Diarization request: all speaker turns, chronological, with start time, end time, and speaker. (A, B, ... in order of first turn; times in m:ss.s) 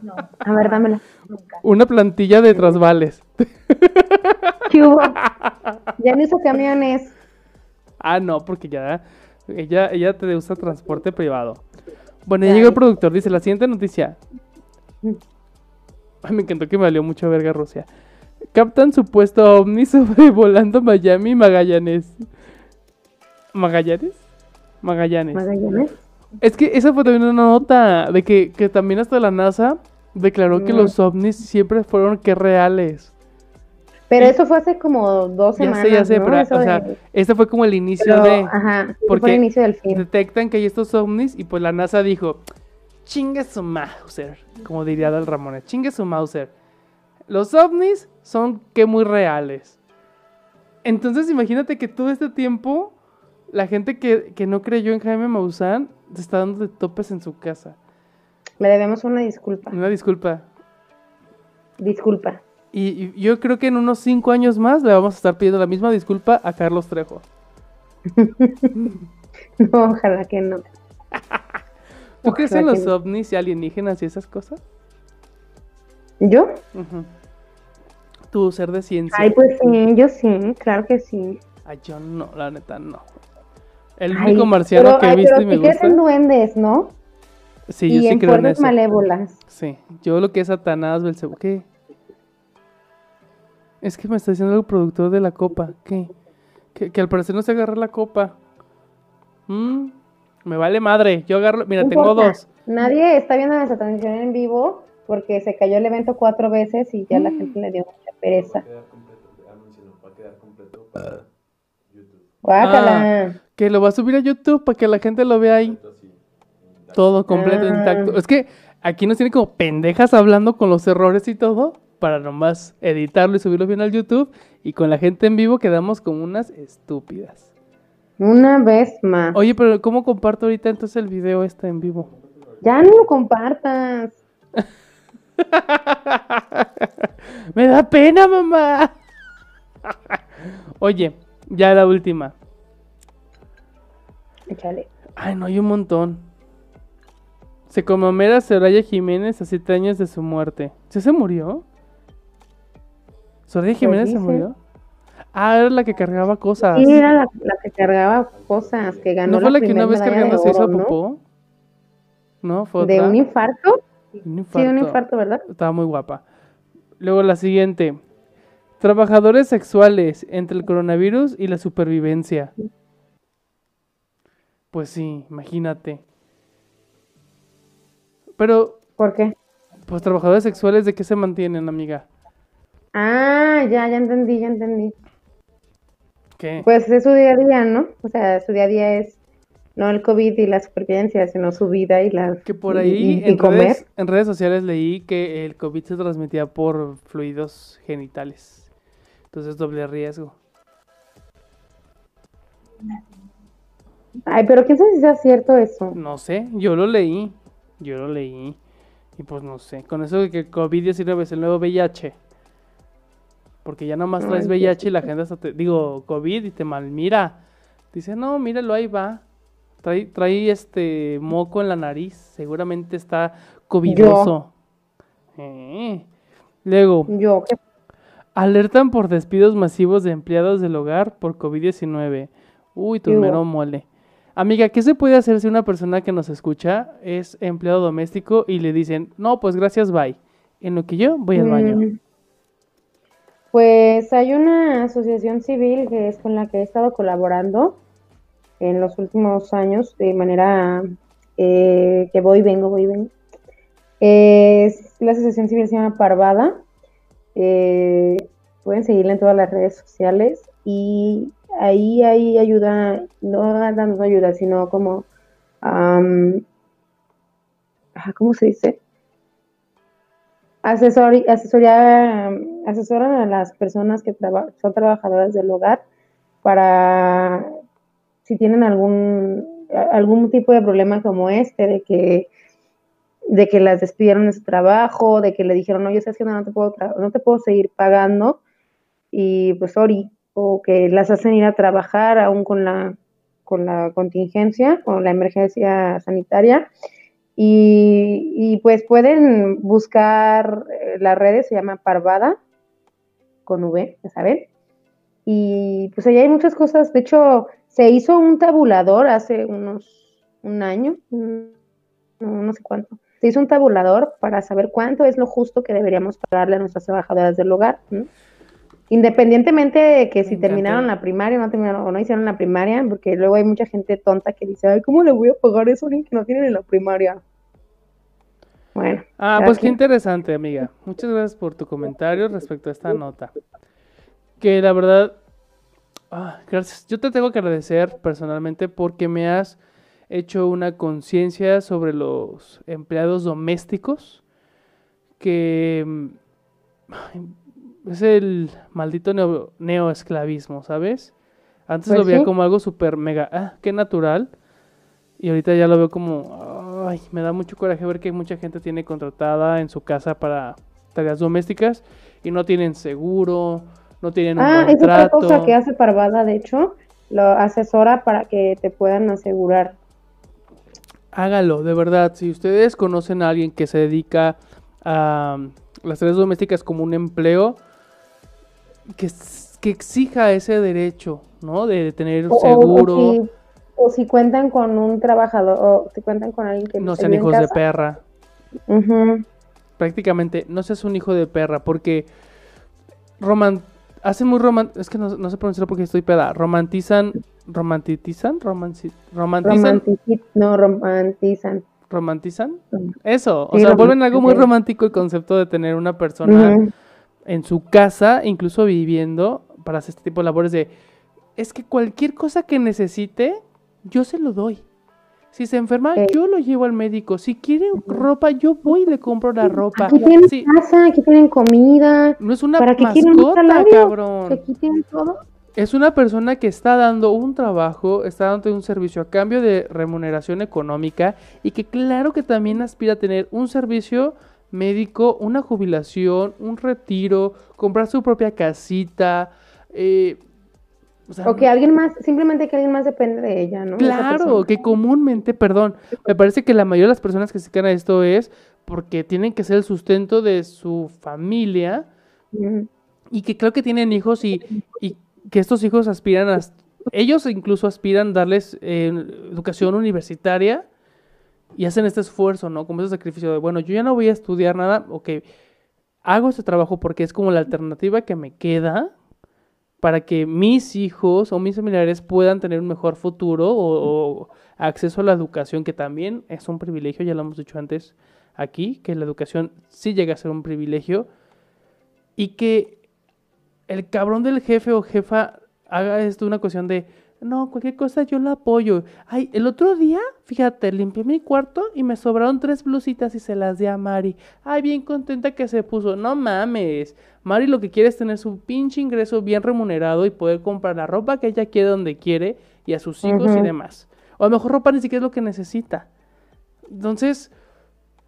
0:00.3-0:01.6 A
0:01.6-0:05.8 B
0:04.7-0:05.2 A
0:06.0-0:07.1 A
0:08.0-0:11.6 B
0:12.3-0:14.2 B
0:12.4-0:12.8 A
0:16.2-0:17.9 B
0:18.5-0:22.3 B
0:23.5-0:24.2 B
0:24.8-0:25.4 B
0:25.3-0:25.9 A
0:26.4-0:33.1 B
0:30.5-0:30.9 A
0:34.1-0:37.0 A
0:35.6-0:38.5 B
0:38.0-0:40.0 A
0:39.1-0:42.4 B
0:43.0-0:46.5 B
0:47.3-0:49.8 B
0:50.8-0:52.9 B
0:53.5-0:57.8 B
0:58.6-0:59.8 A
0:59.7-1:00.5 B
1:01.8-1:02.4 A
1:02.7-1:07.2 B
1:08.2-1:08.9 A
1:08.7-1:09.0 B
1:09.6-1:10.7 A
1:12.2-1:14.6 B
1:12.2-1:12.9 A
1:16.2-1:16.6 A
1:16.7-1:17.1 B
1:18.3-1:19.4 B
1:19.1-1:21.4 A
1:21.6-1:23.0 B
1:24.0-1:26.0 B
1:24.1-1:27.0 A
1:27.7-1:28.8 B
1:27.9-1:29.4 A
1:29.5-1:31.7 B
1:33.8-1:36.1 B
1:36.7-1:38.4 B
1:39.5-1:42.5 B
1:41.8-1:48.6 A
1:47.1-1:47.5 B
1:48.3-1:51.3 C
1:51.9-1:52.3 C
1:52.4-1:53.4 A
1:52.6-1:55.8 B
1:55.4-1:57.2 C
1:56.9-2:07.5 B
1:57.3-1:58.2 A
2:08.2-2:09.4 A
2:09.3-2:12.1 B
2:12.1-2:13.1 C
2:12.6-2:14.2 A
2:15.4-2:18.9 B
2:19.9-2:22.3 B
2:24.5-2:24.9 A
2:25.2-2:26.2 B
2:27.7-2:31.6 B
2:33.5-2:34.6 B
2:33.8-2:34.5 A
2:35.3-2:37.0 B
2:36.7-2:41.0 A
2:38.3-2:39.2 C
2:39.2-2:41.2 B
2:42.4-2:43.2 B
2:42.8-2:43.8 A
2:44.2-2:46.2 B
2:44.5-2:45.4 A
2:47.0-2:48.0 B
2:48.8-2:52.5 B
2:54.7-2:56.0 B
2:58.4-2:58.8 B
2:59.0-2:59.3 A
2:59.9-3:02.1 B
3:02.9-3:04.9 A
3:06.4-3:06.7 B
3:06.6-3:09.2 A
3:09.8-3:13.8 A
3:12.4-3:18.7 B
3:19.3-3:20.4 B
3:24.3-3:26.0 A
3:25.9-3:28.6 B
3:29.2-3:32.2 B
3:33.6-3:37.4 B
3:34.2-3:35.1 A
3:37.9-3:39.2 B
3:39.8-3:44.5 B
3:43.9-3:44.3 A
3:45.4-3:46.1 B
3:46.6-3:47.1 B
3:47.1-3:47.6 A
3:48.4-4:01.8 B
3:53.1-3:53.4 A
4:01.4-4:02.0 A
4:03.5-4:07.8 A
4:08.6-4:10.8 A
4:11.4-4:13.1 A
4:14.0-4:16.6 A
4:17.4-4:25.1 A
4:25.6-4:26.4 A
4:28.0-4:28.8 A
4:30.6-4:35.8 A
4:36.4-4:37.5 A
4:38.2-4:42.3 A
4:43.3-4:48.4 A
4:49.1-4:56.7 A
4:57.4-5:02.4 A
5:03.5-5:04.5 A
5:05.3-5:11.6 A
5:12.2-5:18.1 A
5:18.9-5:27.2 A
5:20.2-5:20.9 B
5:28.8-5:29.8 A
5:29.2-5:33.3 B
5:34.4-5:35.2 B
5:36.1-5:39.6 B
5:40.1-5:44.2 B
5:45.2-5:46.2 B
5:46.9-5:51.1 B
5:51.7-5:54.3 B
5:51.9-5:52.3 A
5:55.2-6:05.6 B
6:04.4-6:09.8 A
6:11.1-6:17.6 B
6:19.0-6:23.2 B
6:22.3-6:27.6 A
6:26.8-6:28.0 B
6:28.7-6:29.2 A
6:29.8-6:32.1 B
6:33.2-6:39.8 B
6:39.4-6:41.7 A
6:41.9-6:46.6 B
6:43.5-6:44.5 A
6:46.2-6:46.7 A
6:47.3-6:50.7 B
6:51.4-6:54.6 B
6:55.3-7:00.5 B
6:57.8-6:58.1 A
6:59.8-7:05.2 A
7:02.2-7:04.4 B
7:05.6-7:20.2 B
7:21.1-7:21.5 B
7:21.2-7:24.5 A
7:23.8-7:31.9 B
7:32.3-7:32.7 A
7:33.1-7:40.7 B
7:41.6-7:45.2 B
7:46.0-7:48.9 B
7:49.8-8:01.1 B
8:02.2-8:02.8 B
8:03.7-8:25.9 B
8:23.0-8:23.5 A
8:26.7-8:27.3 B